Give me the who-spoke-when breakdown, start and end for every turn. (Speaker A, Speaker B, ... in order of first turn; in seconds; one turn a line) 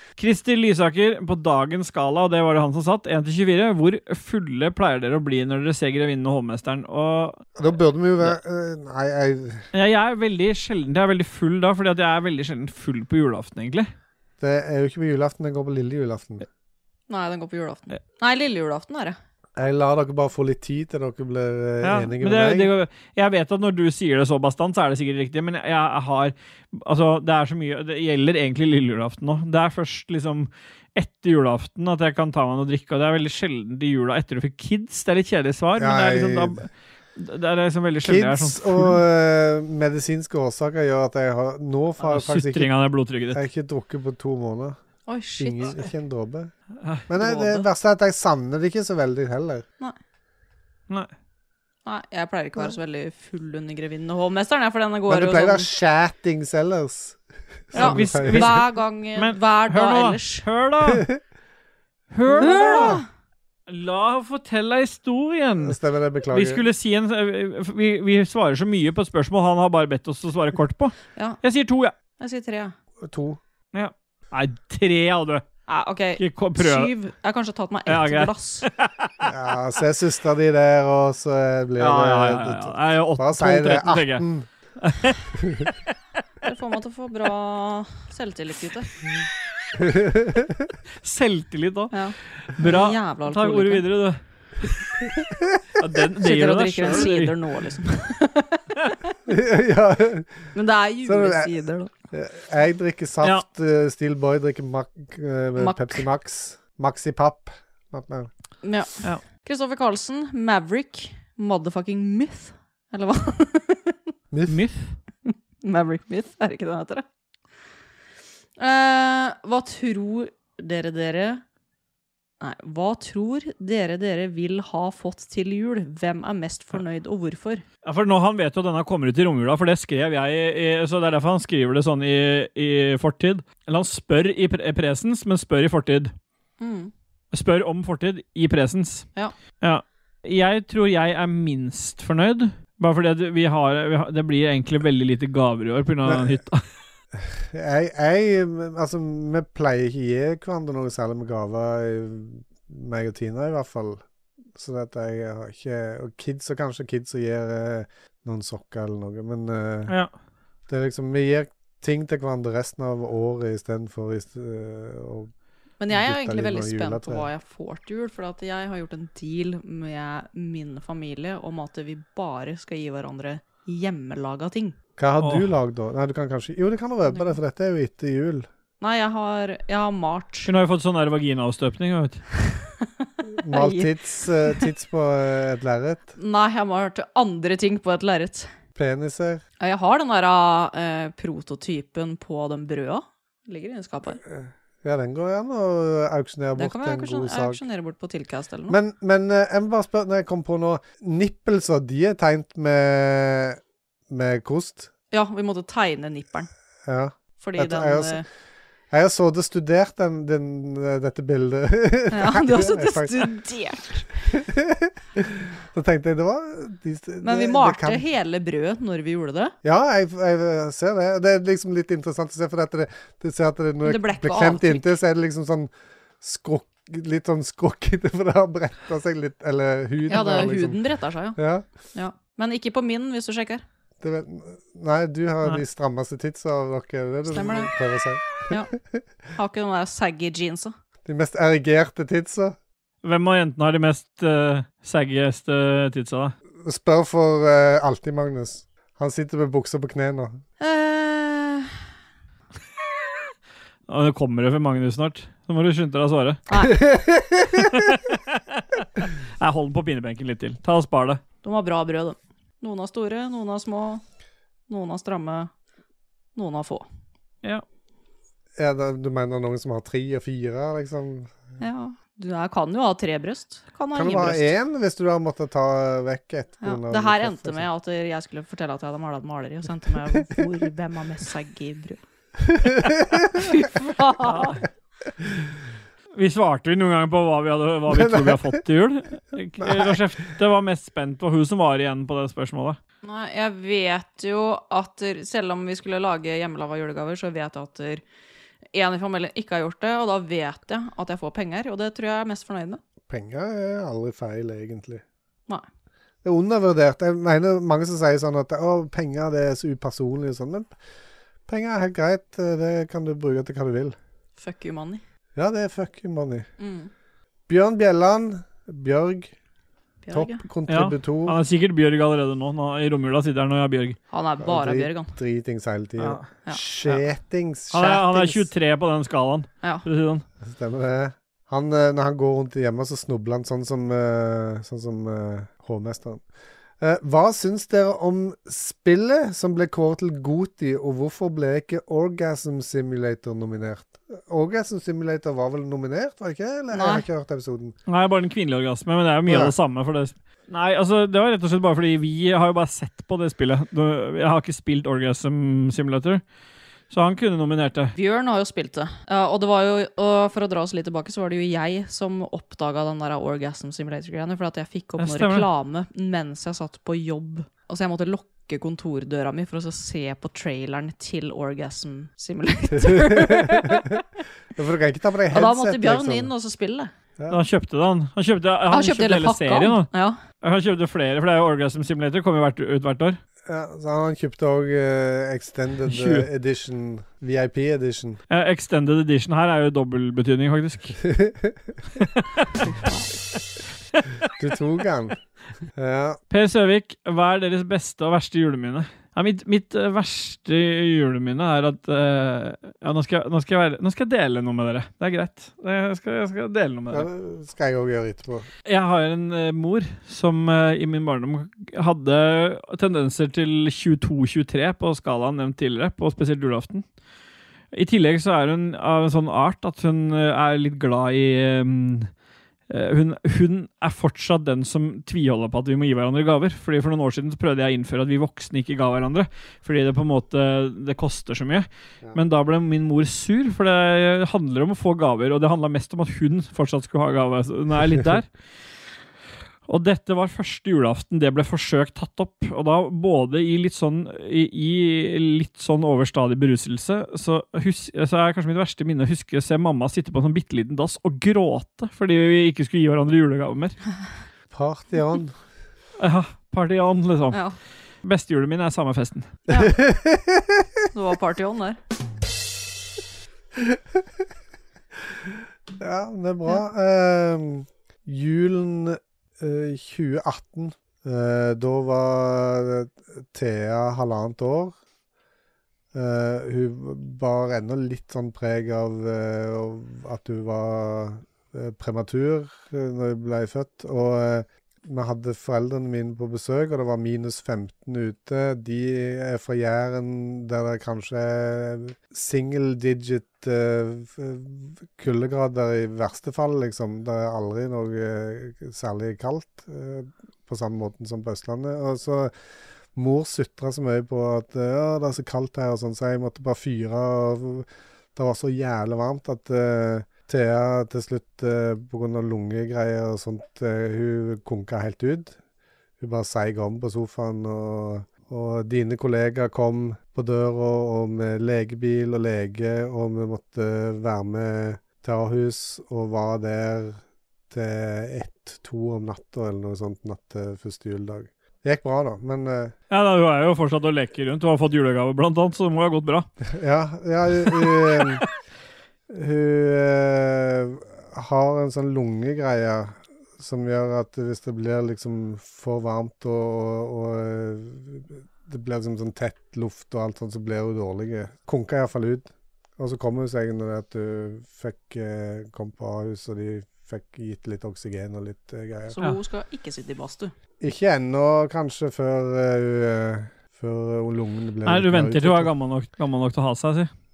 Speaker A: 0.2-7.4
Speaker B: 7.6-9.7
Speaker A: 9.7-13.9
Speaker B: 14.4-16.5
Speaker C: 17.1-19.2
Speaker B: 19.6-22.7
Speaker A: 21.8-39.0
Speaker B: 35.8-36.6
Speaker B: 38.0-42.7
Speaker A: 42.0-43.4
Speaker B: 43.3-44.8
Speaker C: 45.1-45.9
Speaker B: 45.4-46.5
Speaker A: 46.8-47.6
Speaker B: 47.1-49.6
Speaker C: 51.9-55.7
Speaker B: 55.1-58.6
Speaker C: 57.7-60.5
Speaker A: 57.7-61.1
Speaker A: 62.1-63.0
Speaker C: 62.3-63.0
Speaker B: 62.4-63.0
Speaker A: 63.7-65.8
Speaker B: 65.6-66.6
Speaker A: 66.3-71.9
Speaker C: 72.2-72.8
Speaker B: 73.0-73.4
Speaker A: 73.7-75.5
Speaker C: 75.7-78.7
Speaker A: 76.2-76.9
Speaker A: 77.9-79.3
Speaker B: 79.2-84.5
Speaker A: 81.8-84.3
Speaker A: 84.8-85.7
Speaker B: 85.4-85.7
Speaker C: 86.4-88.9
Speaker B: 89.8-90.7
Speaker A: 91.0-95.0
Speaker C: 91.9-93.8
Speaker A: 95.8-97.3
Speaker C: 96.2-98.7
Speaker B: 99.3-100.5
Speaker C: 100.5-101.9
Speaker B: 101.0-101.5
Speaker B: 102.1-108.3
Speaker C: 105.6-106.0
Speaker C: 108.6-114.0
Speaker B: 114.3-114.6
Speaker A: 114.5-115.0
Speaker C: 115.2-117.0
Speaker C: 118.6-121.4
Speaker C: 122.4-127.6
Speaker A: 127.8-136.1
Speaker C: 136.6-136.9
Speaker A: 137.3-139.1
Speaker A: 139.6-146.6
Speaker B: 146.1-146.4
Speaker B: 147.2-154.0
Speaker B: 154.6-160.0
Speaker B: 160.7-165.3
Speaker C: 165.8-174.8
Speaker B: 165.9-167.3
Speaker B: 175.0-178.5
Speaker A: 175.2-175.5
Speaker C: 177.1-177.3
Speaker C: 178.8-180.5
Speaker A: 180.4-182.2
Speaker C: 182.5-184.7
Speaker B: 183.4-186.1
Speaker C: 186.2-188.5
Speaker B: 188.8-189.4
Speaker C: 189.6-194.2
Speaker B: 194.2-197.6
Speaker C: 196.6-198.8
Speaker B: 198.7-204.9
Speaker C: 205.1-206.5
Speaker B: 206.9-208.2
Speaker C: 207.4-208.3
Speaker B: 208.9-213.3
Speaker C: 212.1-214.2
Speaker B: 214.3-218.0
Speaker C: 217.2-219.5
Speaker B: 219.6-230.8
Speaker C: 223.8-225.0
Speaker C: 230.1-231.4
Speaker B: 231.3-231.7
Speaker C: 231.9-233.6
Speaker B: 234.0-239.0
Speaker C: 237.3-237.7
Speaker C: 239.3-240.7
Speaker B: 241.1-242.6
Speaker A: 243.0-246.3
Speaker B: 246.6-250.4
Speaker C: 250.6-251.8
Speaker A: 253.9-256.4
Speaker C: 256.5-256.8
Speaker B: 256.7-257.7
Speaker A: 257.6-261.2
Speaker C: 261.4-264.0
Speaker C: 264.7-265.5
Speaker C: 266.4-266.9
Speaker B: 268.6-271.3
Speaker C: 271.6-274.5
Speaker B: 273.9-277.7
Speaker C: 276.6-282.0
Speaker B: 282.6-283.2
Speaker C: 283.3-284.6
Speaker A: 286.2-292.8
Speaker B: 287.9-288.6
Speaker B: 289.6-290.0
Speaker C: 293.0-298.0
Speaker C: 298.7-302.8
Speaker B: 303.1-305.0
Speaker B: 306.2-310.8
Speaker B: 311.5-314.0
Speaker C: 314.4-315.0
Speaker B: 315.4-316.5
Speaker C: 316.6-316.9
Speaker B: 317.5-319.3
Speaker C: 320.0-320.4
Speaker B: 320.1-321.4
Speaker A: 320.7-324.0
Speaker C: 324.1-325.1
Speaker B: 324.4-328.5
Speaker A: 326.0-326.3
Speaker A: 327.7-330.2
Speaker B: 330.4-336.2
Speaker B: 336.8-347.8
Speaker C: 346.7-347.1
Speaker A: 347.9-356.2
Speaker B: 349.3-349.5
Speaker A: 356.9-357.9
Speaker C: 357.9-374.0
Speaker A: 365.0-365.5
Speaker B: 372.7-373.7
Speaker B: 374.6-376.3
Speaker C: 375.3-376.9
Speaker A: 377.3-383.2
Speaker C: 378.7-380.2
Speaker B: 383.5-388.2
Speaker A: 385.9-386.3
Speaker A: 388.3-391.0
Speaker B: 391.1-391.8
Speaker A: 392.0-392.5
Speaker B: 394.4-395.2
Speaker B: 395.8-396.2
Speaker A: 396.3-407.1
Speaker B: 406.9-408.5
Speaker A: 408.7-416.9
Speaker A: 417.7-422.1
Speaker A: 422.7-438.3
Speaker A: 439.7-453.8
Speaker B: 454.5-455.4
Speaker A: 456.0-457.4
Speaker A: 458.0-459.4
Speaker C: 459.5-459.8
Speaker B: 459.5-460.6
Speaker C: 460.9-461.8
Speaker B: 465.8-474.8
Speaker B: 475.9-502.3
Speaker B: 502.9-515.4
Speaker B: 516.0-532.7
Speaker A: 532.9-536.3
Speaker B: 536.5-538.2
Speaker A: 537.6-538.2
Speaker B: 539.1-559.0
Speaker C: 558.9-560.3
Speaker B: 560.6-565.5
Speaker A: 564.6-566.9